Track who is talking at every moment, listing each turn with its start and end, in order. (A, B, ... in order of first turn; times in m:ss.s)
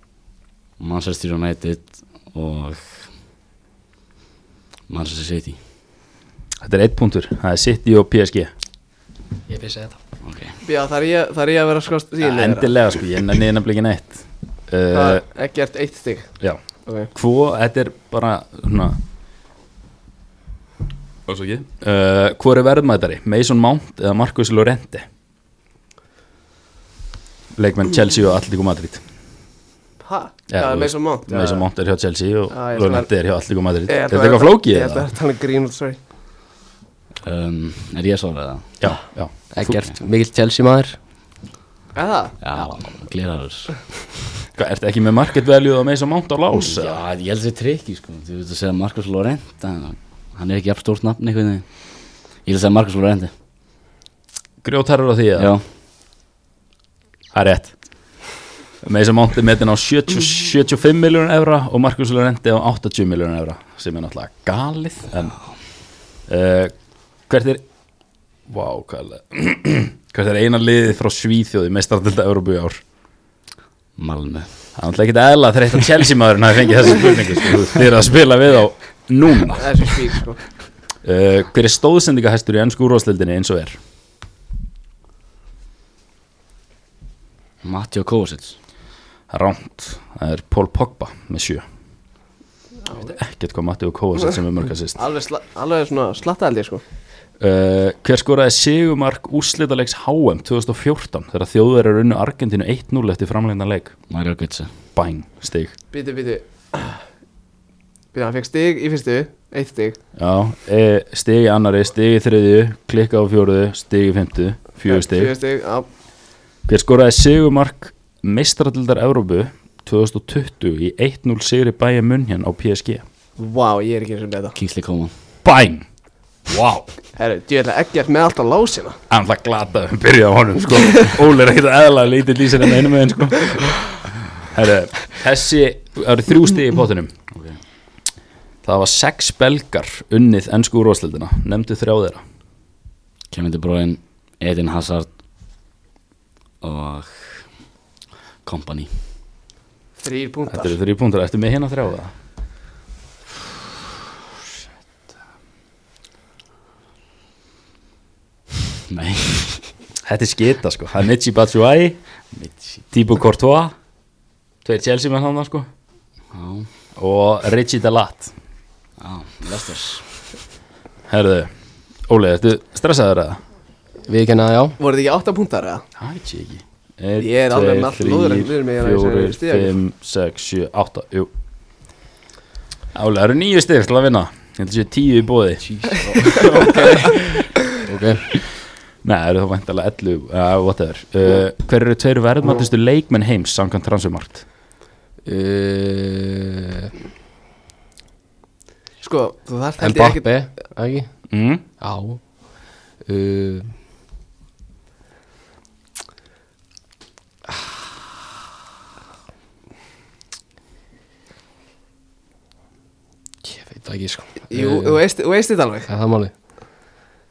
0:00.8-0:02.8 A
0:04.9-0:05.6 A
0:06.6-0:08.5 B
0:09.5-0:10.0 C
0:10.2-0:10.6 A
0:10.6-0:12.8 D
0:12.2-0:15.2 B
0:14.9-0:16.3 D
0:16.8-0:17.1 D
0:17.2-0:19.0 B
0:21.3-0:25.1 B
0:27.6-0:29.0 B
0:30.0-0:31.7 D
0:30.5-0:35.1 B
0:32.5-0:33.1 D
0:33.9-0:36.0 D
0:37.2-0:38.8 A
0:38.8-0:39.8 B
0:39.5-0:41.0 C
0:42.0-0:42.4 D
0:42.4-0:44.0 A
0:44.6-0:47.0 B
0:46.6-0:51.7 A
0:52.4-0:53.3 A
0:54.6-0:55.5 B
0:55.4-0:55.6 A
0:57.3-0:57.7 B
0:58.8-1:05.4 B
1:06.3-1:06.7 B
1:07.3-1:07.6 B
1:08.5-1:12.8 B
1:14.0-1:14.7 A
1:14.8-1:19.9 B
1:19.5-1:20.4 D
1:21.0-1:23.8 B
1:27.6-1:28.6 A
1:29.3-1:31.6 B
1:33.0-1:35.0 B
1:35.0-1:36.8 D
1:37.4-1:44.0 B
1:44.1-1:44.7 A
1:45.0-1:45.7 B
1:45.9-1:47.0 D
1:48.1-1:50.0 D
1:50.2-1:55.3 B
1:54.9-1:55.9 D
1:56.7-2:03.0 B
2:03.4-2:04.6 D
2:04.6-2:05.1 A
2:05.4-2:05.8 B
2:06.5-2:06.9 B
2:07.2-2:09.0 D
2:09.1-2:17.1 B
2:17.3-2:17.6 A
2:18.6-2:22.2 B
2:23.3-2:25.1 A
2:26.6-2:27.4 A
2:28.4-2:28.9 A
2:30.0-2:30.8 D
2:30.5-2:32.1 B
2:38.9-2:39.7 A
2:40.0-2:42.0 B
2:42.3-2:42.8 A
2:42.9-2:43.8 B
2:44.6-2:45.7 B
2:46.3-2:46.7 A
2:47.0-2:48.3 B
2:49.0-2:50.1 A
2:51.1-2:51.5 B
2:52.1-2:53.4 B
2:54.1-2:54.8 C
2:54.8-2:55.8 D
2:56.0-3:01.3 B
2:57.2-2:59.7 D
3:02.9-3:05.7 B
3:05.6-3:08.3 C
3:06.3-3:07.2 D
3:09.0-3:14.4 B
3:15.2-3:16.9 C
3:19.0-3:20.3 D
3:19.8-3:21.1 C
3:21.3-3:21.6 B
3:21.8-3:22.2 C
3:23.0-3:23.7 C
3:33.4-3:35.0 C
3:34.5-3:35.9 D
3:35.9-3:36.3 C